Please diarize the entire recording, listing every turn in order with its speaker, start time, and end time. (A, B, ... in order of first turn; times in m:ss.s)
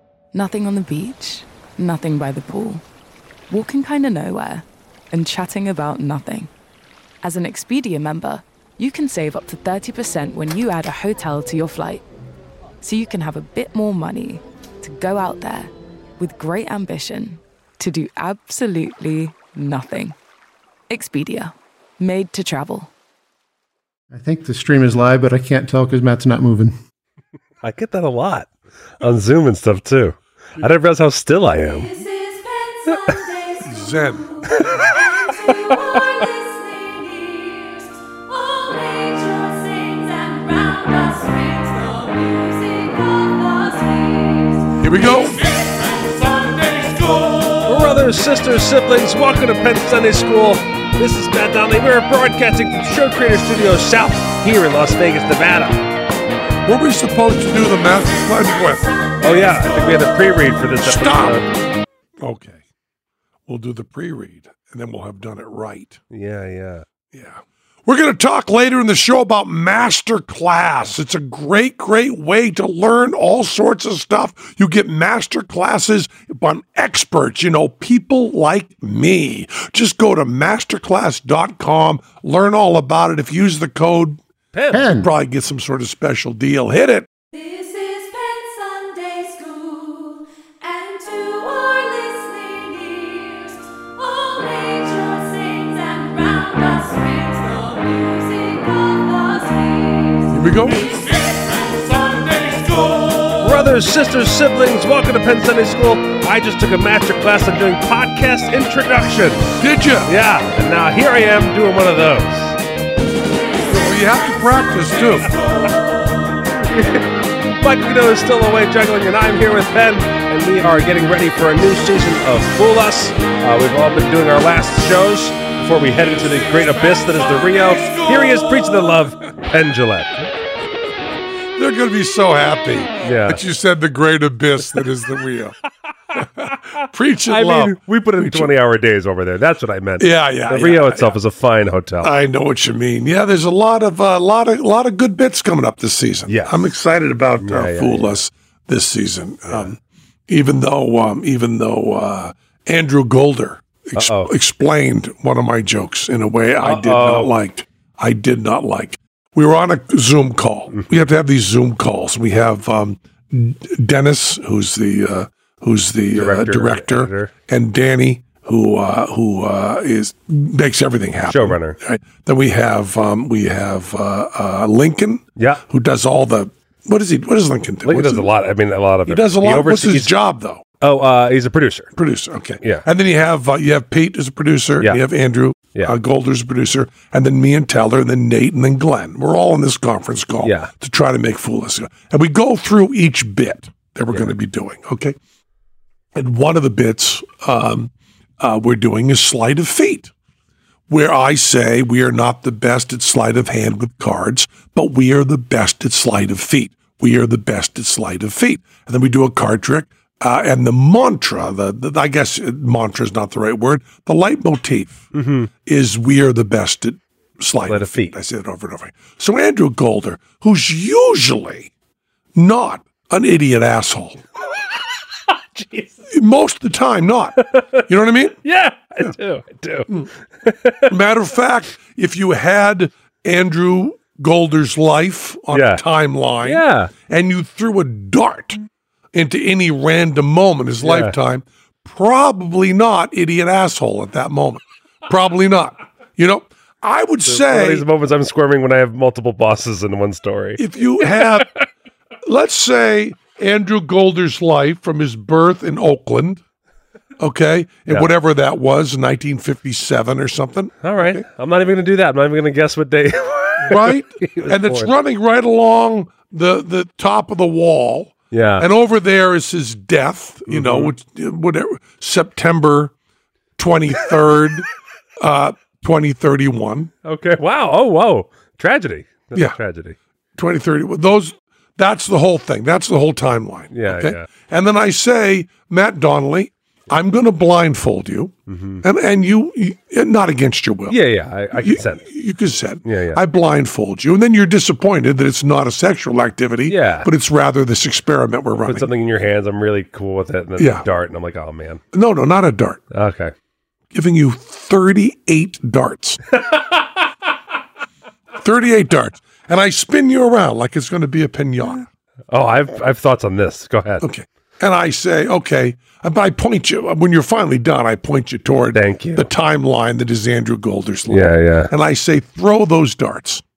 0:00.3-0:02.8 A
0:03.5-0:06.5 A
0:07.2-0:12.0 A
0:12.8-0:20.2 A
0:20.9-0:22.9 A
0:24.1-0:26.8 B
0:27.6-0:32.0 C
0:32.1-0:32.8 D
0:32.9-0:33.2 C
0:33.6-0:34.4 E
0:34.5-0:36.0 C
0:36.4-0:47.9 D
0:44.8-0:45.4 E
0:47.7-0:55.8 C
0:56.7-0:58.9 E
0:59.2-1:01.5 C
1:00.8-1:01.4 E
1:02.2-1:02.6 E
1:03.5-1:06.0 E
1:06.1-1:06.8 C
1:07.1-1:24.2 E
1:24.5-1:25.0 C
1:24.7-1:25.1 B
1:25.0-1:27.1 E
1:27.5-1:30.0 D
1:30.6-1:32.4 D
1:34.0-1:43.6 D
1:40.3-1:40.9 E
1:43.4-1:52.6 C
1:49.6-1:50.1 E
1:53.7-1:55.3 E
1:56.6-2:10.3 C
2:07.8-2:08.1 D
2:11.6-2:15.6 E
2:13.0-2:13.4 C
2:16.2-2:18.5 E
2:17.3-2:22.1 C
2:20.0-2:21.2 E
2:22.0-2:58.3 E
2:26.3-2:26.6 C
2:27.4-2:28.2 C
2:34.0-2:34.3 C
2:36.6-2:37.3 C
2:46.1-2:47.3 C
2:51.3-2:51.8 C
2:55.4-2:55.6 C
2:57.8-3:00.1 C
2:59.1-3:00.6 E
3:00.8-3:01.9 C
3:02.0-3:15.2 E
3:10.4-3:10.7 C
3:16.2-3:20.1 E
3:20.9-3:35.1 E
3:35.1-3:35.5 C
3:35.6-3:41.7 E
3:37.7-3:38.2 C
3:42.3-3:44.2 E
3:45.6-3:46.0 C
3:46.1-3:47.4 E
3:47.4-3:47.8 C
3:47.9-3:48.4 E
3:48.4-3:50.9 C
3:50.9-3:58.6 E
3:55.5-3:55.8 C
3:56.4-3:56.9 C
3:59.1-4:07.9 E
4:00.8-4:01.2 C
4:07.3-4:11.4 C
4:10.6-4:11.5 E
4:12.2-4:16.4 E
4:17.2-4:21.2 E
4:20.8-4:24.9 C
4:23.6-4:32.9 E
4:28.3-4:28.7 C
4:30.5-4:30.9 C
4:33.6-4:34.7 E
4:35.2-4:36.9 E
4:37.0-4:40.0 C
4:39.3-4:39.6 E
4:40.4-4:51.0 E
4:43.7-4:44.3 C
4:48.5-4:48.8 C
4:50.9-4:52.1 C
4:51.5-4:58.9 E
4:52.8-4:53.2 C
4:56.7-4:57.1 C
4:58.7-5:01.8 C
5:00.6-5:00.9 E
5:01.9-5:02.8 E
5:02.9-5:03.3 C
5:03.9-5:06.2 E
5:08.4-5:11.9 E
5:12.3-5:14.1 C
5:14.0-5:23.4 E
5:18.7-5:19.3 C
5:21.1-5:21.7 C